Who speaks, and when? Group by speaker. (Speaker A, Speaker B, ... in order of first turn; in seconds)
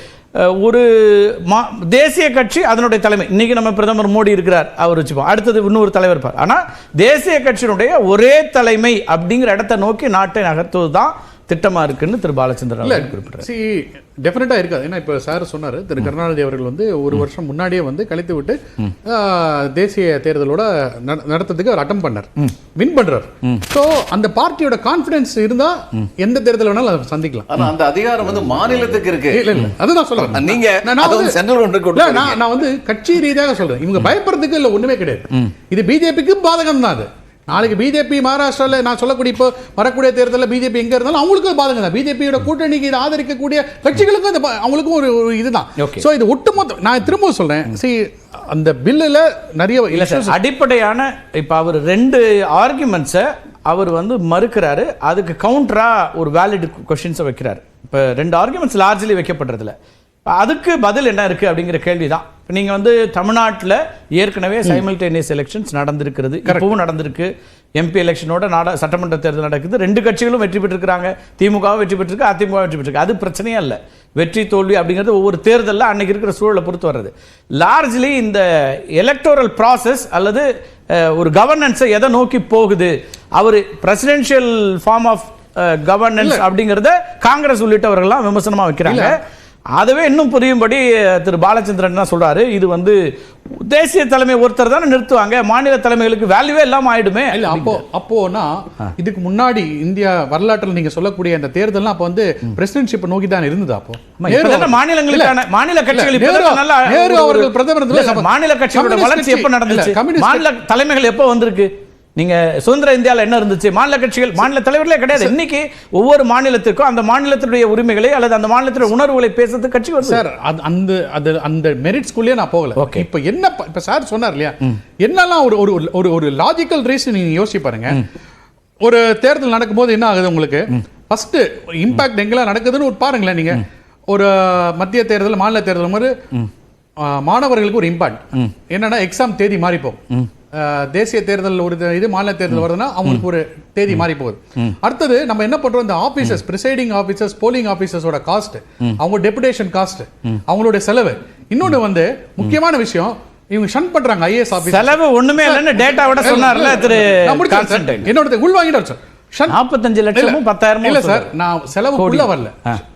Speaker A: 0.4-13.5, 45.8-46.0, 49.9-59.8, 60.3-89.2, 89.8-93.0, 93.5-97.8, 104.2-120.2, 122.8-123.0, 154.6-158.1, 159.5-161.3, 162.0-162.8
Speaker B: 12.8-27.5, 29.3-31.3, 31.9-50.4, 66.4-66.7, 86.2-86.5, 88.8-89.2, 97.3-105.4, 105.9-110.5, 120.0-128.0, 128.8-136.1, 137.0-140.0, 140.5-159.6, 160.1-162.6
Speaker C: 27.5-29.4, 30.3-32.4